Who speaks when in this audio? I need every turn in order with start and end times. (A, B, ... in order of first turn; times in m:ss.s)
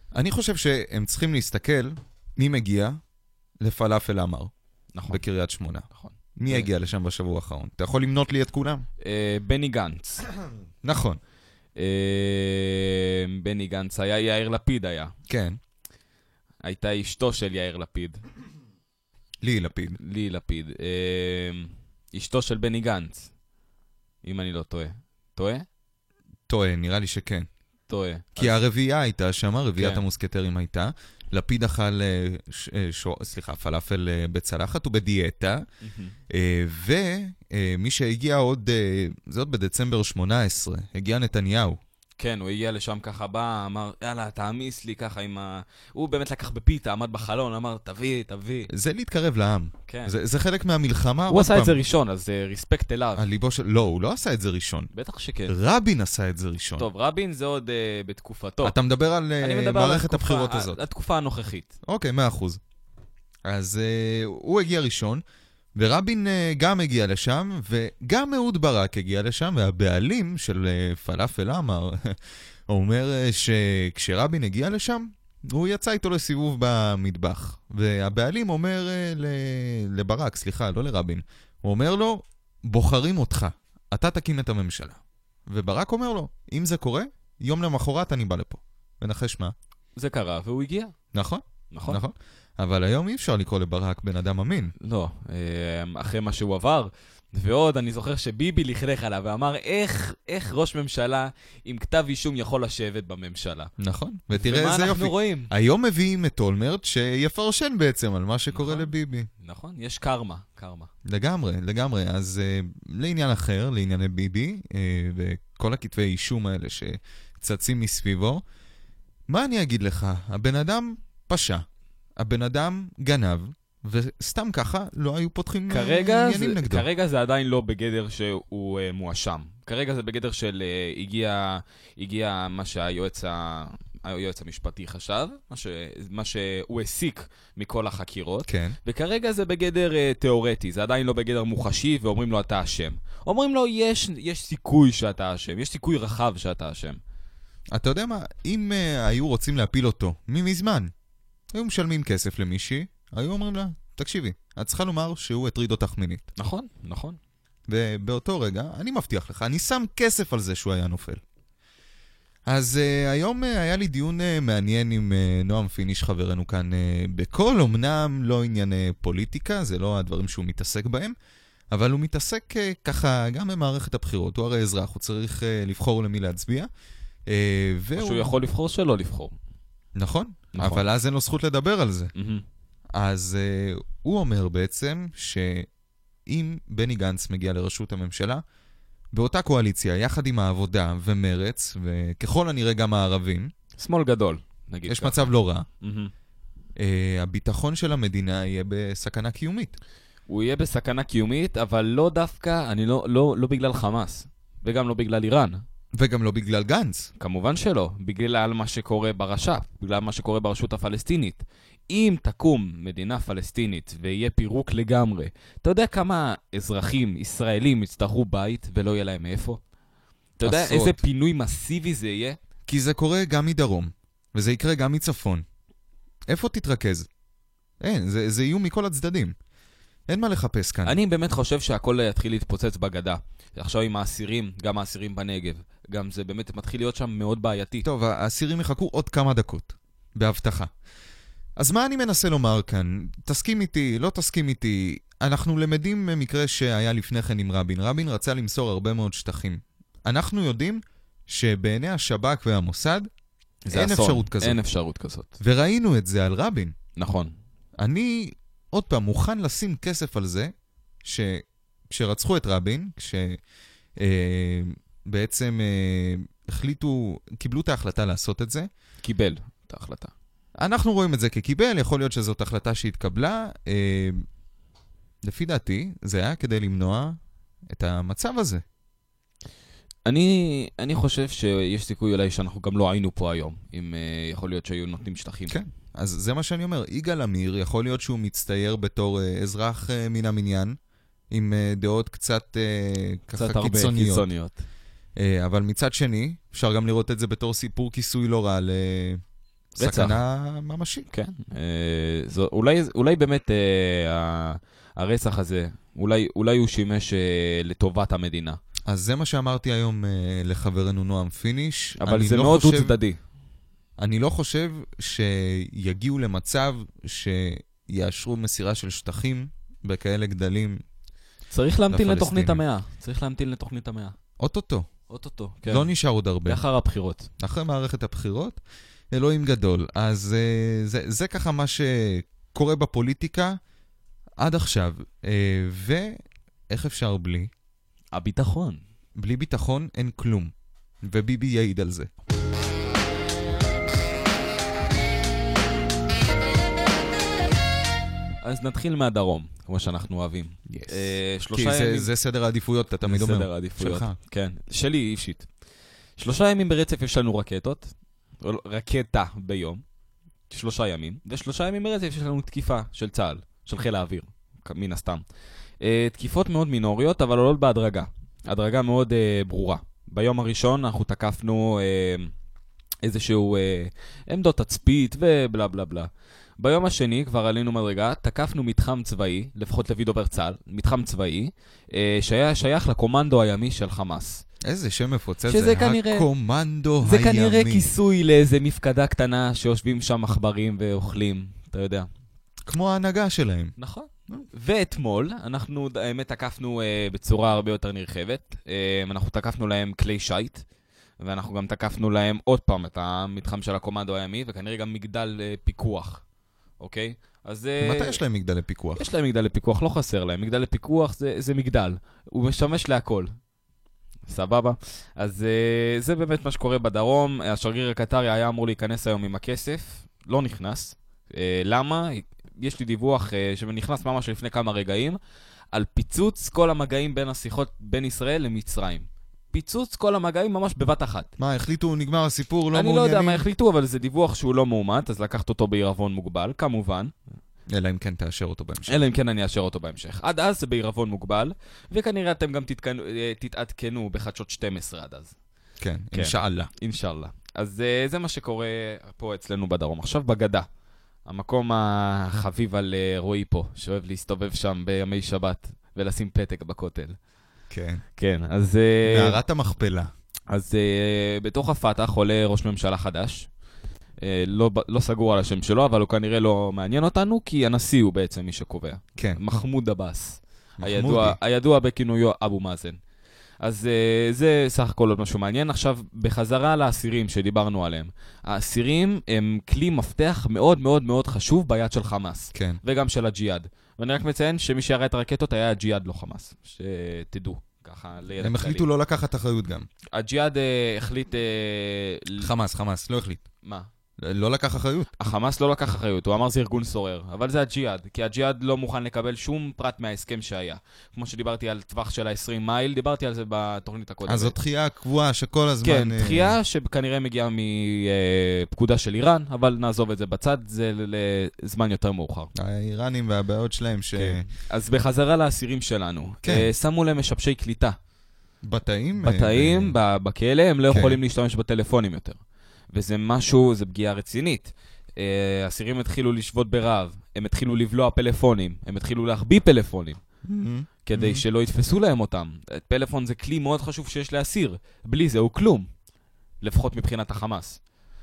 0:00.1-0:03.0 A
0:03.6-0:04.5 A
0:04.9-0:05.2 B
0:05.1-0:08.8 A
0:05.9-0:06.7 B
0:09.0-0:10.2 B
0:10.8-0:11.2 A
0:11.8-0:15.1 B
0:15.3-0:15.6 A
0:16.6-0:18.2 B
0:19.4-0:20.0 A
0:20.0-0:23.3 B
0:24.2-0:25.6 B
0:26.5-0:27.5 A
0:27.9-0:28.6 B
0:28.4-0:35.6 A
0:29.8-0:30.0 B
0:35.8-0:36.1 B
0:36.3-0:41.8 A
0:42.2-0:48.7 B
0:48.7-0:51.8 A
0:49.9-0:50.1 B
0:51.3-0:53.2 B
0:53.2-0:54.9 A
0:54.9-0:55.5 B
0:55.5-0:56.9 A
0:56.8-0:58.7 B
0:58.6-1:00.8 A
0:59.4-1:01.7 B
1:01.8-1:02.6 A
1:03.4-1:05.2 A
1:05.7-1:12.2 A
1:12.7-1:29.5 A
1:30.0-1:30.9 B
1:31.1-1:34.7 A
1:31.7-1:32.0 B
1:34.8-1:43.7 B
1:43.8-1:49.3 A
1:44.3-1:45.5 B
1:48.5-1:50.9 B
1:51.0-1:58.4 A
1:59.3-2:01.6 A
2:02.2-2:06.8 A
2:05.7-2:27.0 B
2:18.4-2:18.8 A
2:27.7-2:30.9 A
2:31.5-2:36.2 A
2:36.4-2:37.2 B
2:37.7-2:41.2 A
2:42.4-2:51.1 A
2:51.7-2:56.7 A
2:57.3-2:58.3 A
2:58.0-2:59.3 B
3:00.0-3:02.1 A
3:00.5-3:00.8 B
3:02.1-3:02.4 B
3:02.9-3:05.7 A
3:06.2-3:08.4 A
3:09.1-3:13.5 A
3:13.8-3:16.1 B
3:14.9-3:15.6 A
3:16.8-3:19.7 A
3:20.3-3:25.6 B
3:25.9-3:27.1 A
3:27.2-3:39.6 B
3:40.4-3:42.4 B
3:40.4-3:41.0 A
3:42.7-3:45.4 A
3:46.3-3:47.1 A
3:47.8-3:49.3 A
3:50.1-3:51.0 A
3:50.8-3:57.8 B
3:57.8-4:00.7 A
4:01.6-4:13.1 A
4:13.6-4:15.4 B
4:13.7-4:14.6 A
4:15.4-4:16.7 A
4:17.0-4:17.3 B
4:17.8-4:20.5 A
4:21.0-4:23.4 A
4:24.0-4:28.7 A
4:29.0-4:30.1 B
4:30.6-4:34.2 A
4:35.2-4:37.2 A
4:37.7-4:38.6 A
4:40.0-4:45.6 B
4:45.5-4:50.8 A
4:51.3-4:54.3 A
4:53.3-4:54.6 B
4:55.2-4:59.2 A
4:59.8-5:00.2 B
4:59.8-5:01.0 A
5:01.1-5:08.6 B
5:08.9-5:12.9 A
5:12.0-5:13.2 B
5:14.0-5:20.8 A
5:21.5-5:24.1 B
5:21.9-5:22.6 A
5:24.4-5:24.9 A
5:25.1-5:25.9 B
5:25.7-5:26.6 A
5:26.4-5:27.3 B
5:27.4-5:28.6 A
5:29.1-5:33.6 A
5:34.4-5:36.2 A
5:36.7-5:37.5 A
5:38.1-5:38.8 B
5:39.2-5:40.5 A
5:41.0-5:42.1 A
5:48.4-5:52.1 B
5:50.7-5:54.1 A
5:53.0-5:55.5 B
5:56.2-5:59.8 B
6:00.5-6:05.2 B
6:05.8-6:12.3 B
6:13.0-6:24.4 B
6:24.6-6:27.8 A
6:25.5-6:26.3 B
6:27.0-6:32.1 B
6:32.6-6:33.7 A
6:33.8-6:40.6 B
6:41.2-6:46.2 B
6:46.8-6:48.2 B
6:47.8-6:49.0 A
6:49.0-6:53.3 B
6:54.3-7:05.2 B
7:05.7-7:11.3 B
7:11.4-7:13.4 A
7:12.7-7:17.1 B
7:17.7-7:19.0 A
7:18.9-7:25.3 B
7:25.8-7:26.7 A
7:26.1-7:30.7 B
7:31.2-7:37.2 B
7:37.7-7:38.0 A
7:38.2-7:39.4 B
7:39.0-7:40.1 A
7:40.5-7:43.5 B
7:44.2-7:53.0 B
7:50.8-7:51.4 A
7:53.6-8:08.8 B
8:02.5-8:02.8 A
8:08.4-8:09.9 A
8:10.1-8:12.5 B
8:12.4-8:13.4 A
8:13.6-8:13.9 B
8:14.2-8:15.1 A
8:15.2-8:24.6 B
8:24.2-8:26.6 A
8:25.8-8:32.5 B
8:32.5-8:34.4 A
8:34.2-8:38.0 B
8:36.4-8:36.7 A
8:38.6-8:39.9 A
8:39.2-8:42.4 B
8:40.9-8:41.2 A
8:42.9-8:50.2 B
8:50.4-8:51.4 A
8:51.0-8:55.9 B
8:56.6-8:57.8 B